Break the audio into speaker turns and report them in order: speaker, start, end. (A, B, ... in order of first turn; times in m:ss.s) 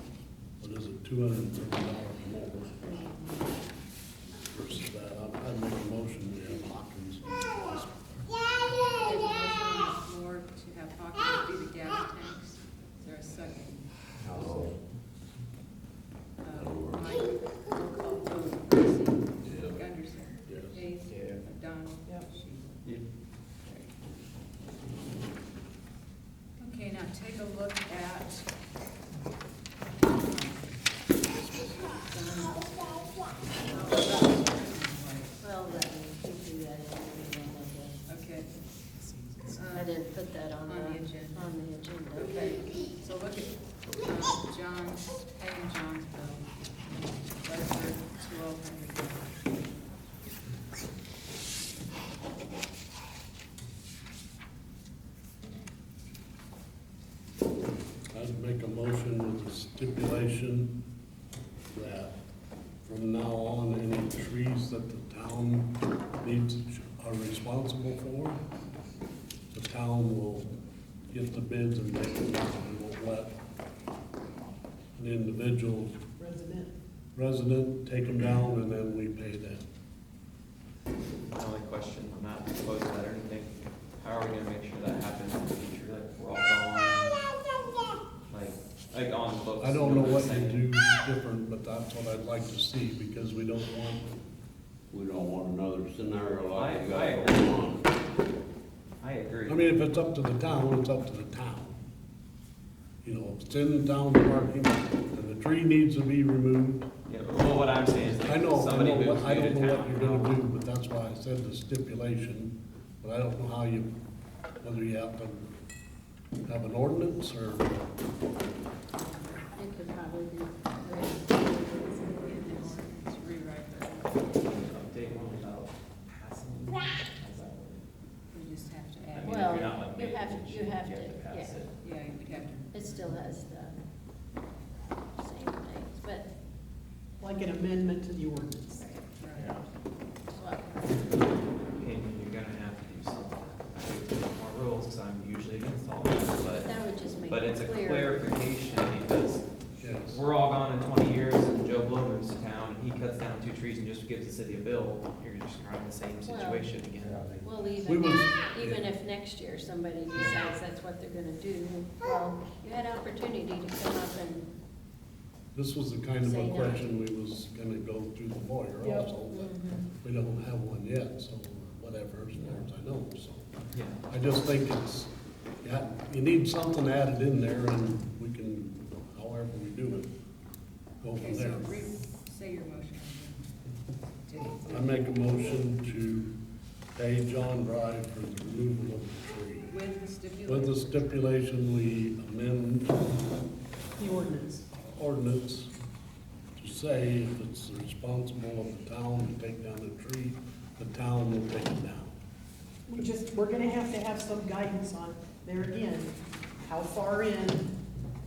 0:00.6-0:02.9 A
0:02.8-0:03.5 B
0:04.5-0:08.3 A
0:09.0-0:13.9 C
0:14.3-0:14.7 D
0:14.3-0:14.7 E
0:16.4-0:22.8 C
0:16.6-0:17.1 F
0:19.5-0:19.8 E
0:20.5-0:20.8 A
0:21.1-0:21.4 D
0:23.6-0:23.9 C
0:26.6-0:28.5 C
0:30.0-0:30.7 C
0:31.4-0:35.4 C
0:35.4-0:38.0 B
0:38.1-0:38.5 C
0:39.0-0:39.6 D
0:39.5-0:40.0 C
0:39.7-0:42.7 B
0:40.7-0:41.5 C
0:42.1-0:49.8 C
0:58.1-1:00.8 A
1:01.7-1:02.2 A
1:02.8-1:08.4 A
1:09.5-1:10.5 A
1:11.1-1:13.4 A
1:15.0-1:16.0 A
1:16.2-1:16.8 F
1:17.2-1:19.6 A
1:21.3-1:27.2 D
1:28.3-1:30.6 D
1:29.6-1:34.1 A
1:34.9-1:37.8 E
1:36.5-1:37.6 D
1:39.0-1:39.7 D
1:39.5-1:41.8 A
1:43.0-1:46.9 A
1:47.1-1:50.4 D
1:48.0-1:53.9 A
1:54.6-1:55.5 A
1:56.4-1:57.9 A
1:59.0-2:02.8 B
2:02.2-2:04.4 C
2:04.4-2:07.8 D
2:08.3-2:09.5 C
2:09.1-2:11.7 D
2:09.2-2:11.6 B
2:11.8-2:13.0 C
2:12.7-2:13.8 B
2:15.2-2:16.3 B
2:17.2-2:18.8 F
2:18.8-2:19.0 B
2:19.2-2:19.5 C
2:20.3-2:21.3 B
2:21.6-2:37.4 D
2:26.4-2:28.2 B
2:29.8-2:30.2 A
2:36.2-2:36.7 B
2:37.4-2:44.5 B
2:37.8-2:38.4 A
2:40.1-2:40.5 D
2:45.6-2:53.5 A
2:46.2-2:46.8 B
2:48.8-2:49.1 F
2:49.2-2:49.9 B
2:52.4-2:52.6 D
2:53.7-2:54.0 D
2:54.1-3:00.1 A
3:01.0-3:01.7 A
3:01.1-3:03.6 C
3:04.2-3:05.1 C
3:04.7-3:06.4 A
3:07.0-3:09.7 A
3:09.6-3:11.3 C
3:10.5-3:13.0 A
3:14.0-3:14.7 F
3:14.8-3:15.7 A
3:16.6-3:22.2 A
3:22.9-3:27.7 F